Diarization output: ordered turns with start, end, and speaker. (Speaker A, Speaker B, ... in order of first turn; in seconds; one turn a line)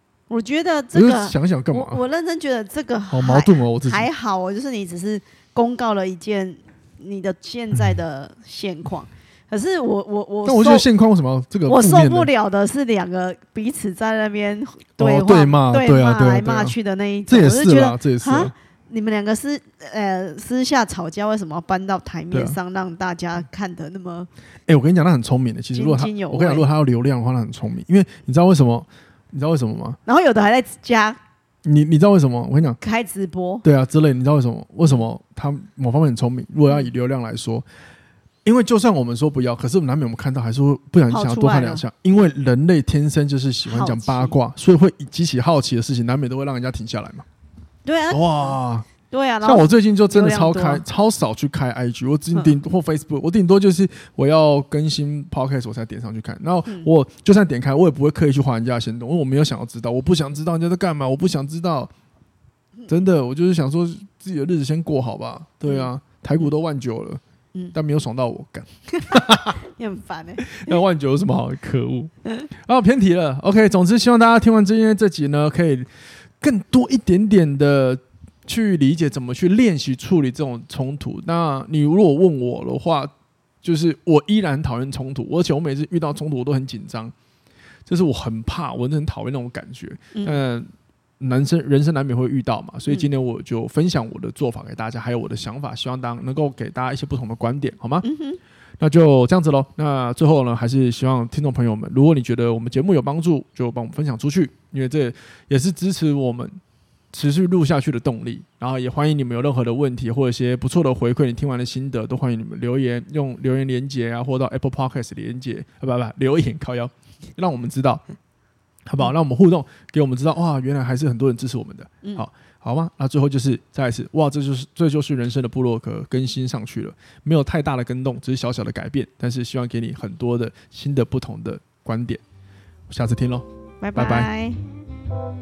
Speaker A: 0.3-10.9
Speaker B: 0.9-2.0
Speaker B: 3.1-4.1
Speaker B: 10.4-12.3
Speaker A: 11.7-24.3
Speaker B: 15.0-16.8
Speaker B: 17.3-18.5
Speaker B: 22.3-22.6
Speaker B: 24.7-30.0
Speaker A: 25.7-26.7
Speaker A: 30.1-31.2
Speaker B: 31.6-32.8
Speaker A: 32.8-33.6
Speaker B: 33.6-37.6
Speaker B: 38.5-47.2
Speaker A: 41.1-41.8
Speaker A: 43.6-44.4
Speaker A: 47.9-48.5
Speaker B: 48.1-48.9
Speaker A: 49.1-50.8
Speaker B: 49.4-61.9
Speaker B: 62.9-67.2
Speaker A: 65.6-65.9
Speaker B: 67.7-69.6
Speaker A: 69.0-70.8
Speaker B: 70.4-75.9
Speaker B: 76.4-83.1
Speaker B: 83.6-87.1
Speaker B: 87.9-90.7
Speaker A: 90.1-90.4
Speaker B: 91.2-98.1
Speaker A: 98.0-98.4
Speaker B: 98.8-106.6
Speaker B: 107.1-118.0
Speaker B: 118.9-132.2
Speaker B: 132.9-134.3
Speaker A: 133.8-134.6